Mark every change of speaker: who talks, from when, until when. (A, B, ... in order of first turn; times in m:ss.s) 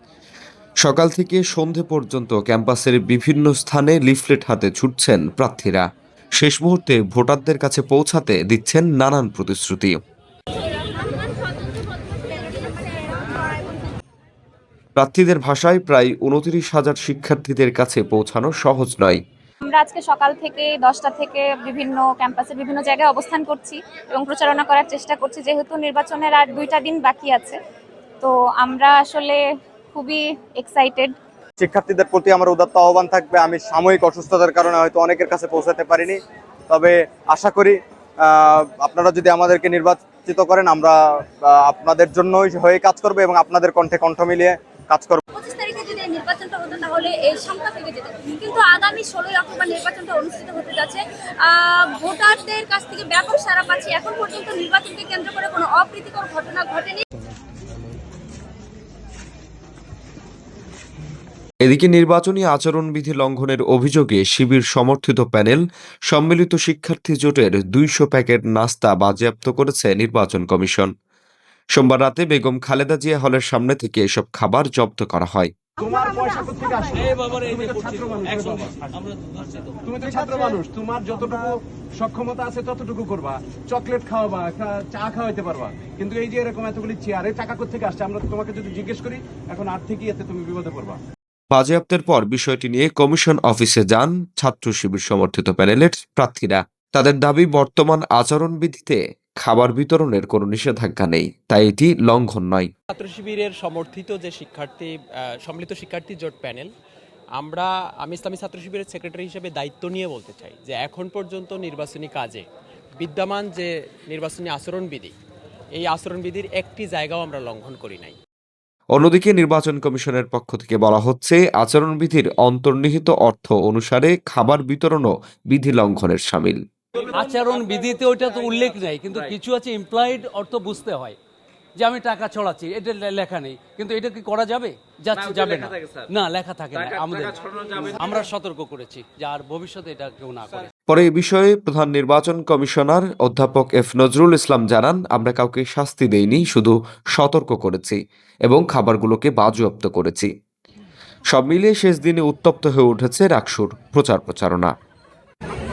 0:00.8-0:10.0 A
0:15.0-0:19.2 A
0:19.6-0:27.6 B
0:28.2-0:31.2 B
0:31.6-0:45.2 C
0:45.5-0:57.0 D
1:01.6-1:10.9 A
1:11.7-1:15.5 A
1:15.8-1:18.8 E
1:19.0-1:19.7 F
1:19.8-1:31.0 E
1:31.5-1:42.7 A
1:42.9-1:46.7 G
1:47.4-1:52.5 G
1:53.0-1:55.1 G
1:55.8-1:58.2 G
1:58.9-2:06.6 A
2:07.0-2:11.2 F
2:11.8-2:20.7 F
2:20.9-2:30.3 A
2:31.3-2:34.7 A